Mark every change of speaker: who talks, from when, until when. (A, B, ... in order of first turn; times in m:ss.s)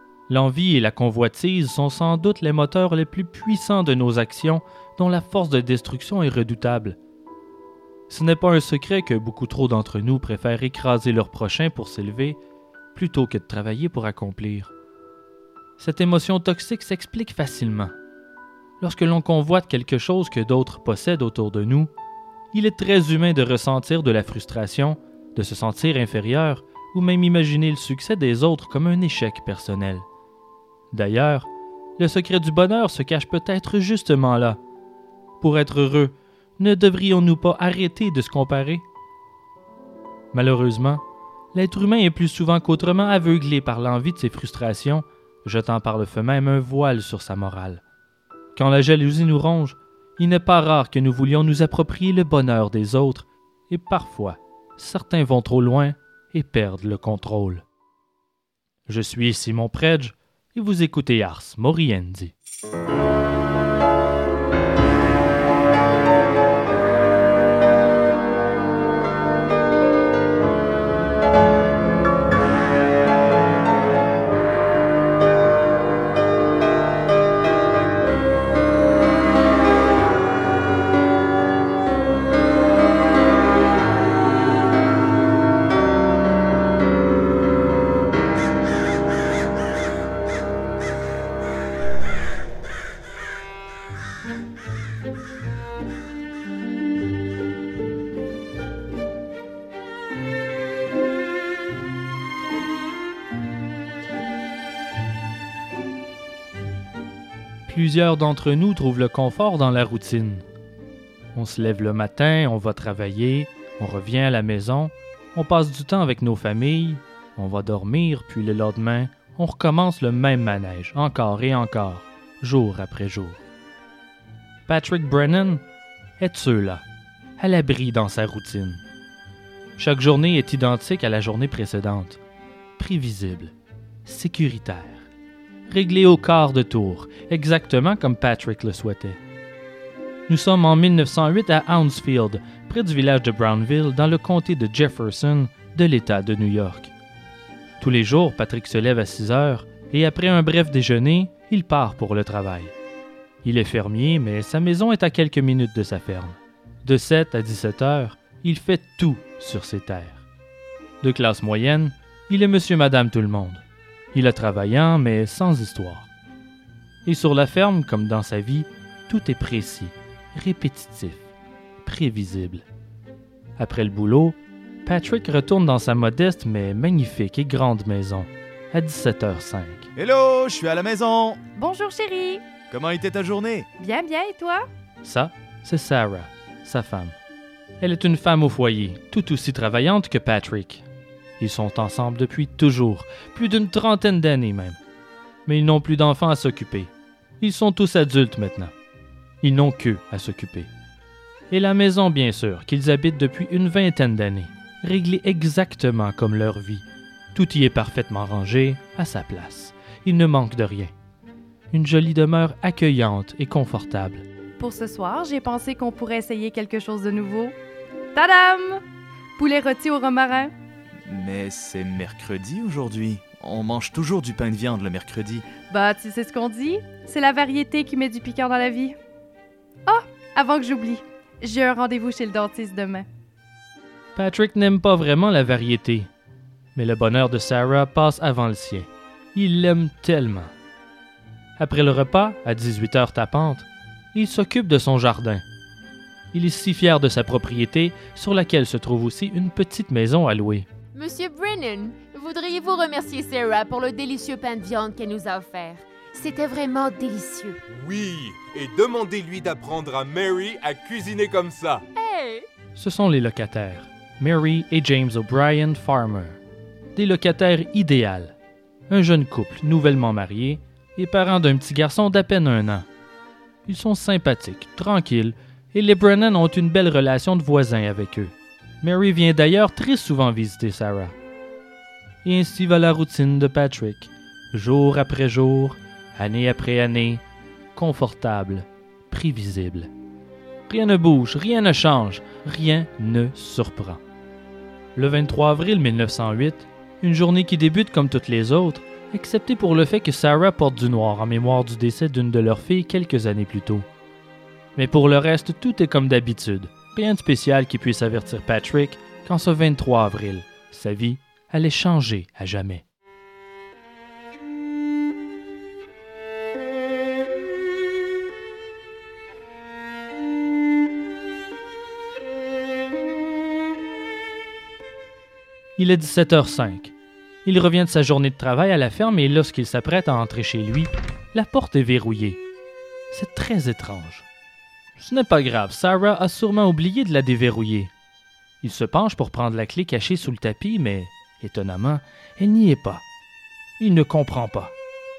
0:00.3-0:07.0 A
0:08.1-0:12.4 A
0:12.9-0:14.7 A
0:15.8-0:17.9 A
0:18.8-0:21.9 A
0:22.5-0:30.1 A
0:30.9-0:34.6 A
0:35.4-0:38.8 A
0:40.3-0:41.0 A
0:41.5-0:47.8 A
0:48.6-0:57.6 A
0:58.8-1:02.3 A
1:47.7-1:50.4 A
1:51.3-2:03.4 A
2:04.7-2:05.6 A
2:06.2-2:06.8 A
2:07.4-2:08.8 A
2:09.8-2:12.2 A
2:12.8-2:13.5 A
2:14.0-2:15.1 A
2:15.7-2:19.2 A
2:20.3-2:26.9 A
2:27.8-2:32.7 A
2:33.4-2:40.2 A
2:41.0-2:43.6 A
2:44.1-2:46.1 A
2:47.0-2:51.3 A
2:51.8-2:52.6 A
2:53.6-2:59.9 A
3:00.0-3:01.4 B
3:01.6-3:02.4 C
3:02.7-3:03.7 B
3:03.8-3:04.7 C
3:05.0-3:07.1 A
3:07.8-3:10.8 A
3:11.4-3:14.8 A
3:15.4-3:18.7 A
3:19.4-3:20.7 A
3:21.5-3:30.9 A
3:31.7-3:34.2 A
3:34.6-3:37.5 C
3:38.1-3:38.8 C
3:39.4-3:40.5 C
3:41.0-3:45.4 B
3:45.7-3:49.0 C
3:49.9-3:53.0 C
3:54.2-3:56.1 A
3:56.7-4:00.5 A
4:01.6-4:05.4 A
4:06.3-4:10.7 A
4:10.9-4:17.6 D
4:17.7-4:21.8 E
4:21.9-4:22.5 D
4:22.8-4:26.4 A
4:26.9-4:28.3 A
4:28.9-4:32.9 A
4:33.6-4:41.1 A
4:42.2-4:47.2 A
4:47.8-4:49.9 A
4:50.7-4:54.0 A
4:55.0-5:03.8 A
5:04.8-5:12.8 A
5:25.8-5:26.9 A
5:27.4-5:32.4 A
5:33.1-5:34.2 A
5:35.0-5:37.9 A
5:38.6-5:43.0 A
5:43.8-5:44.7 A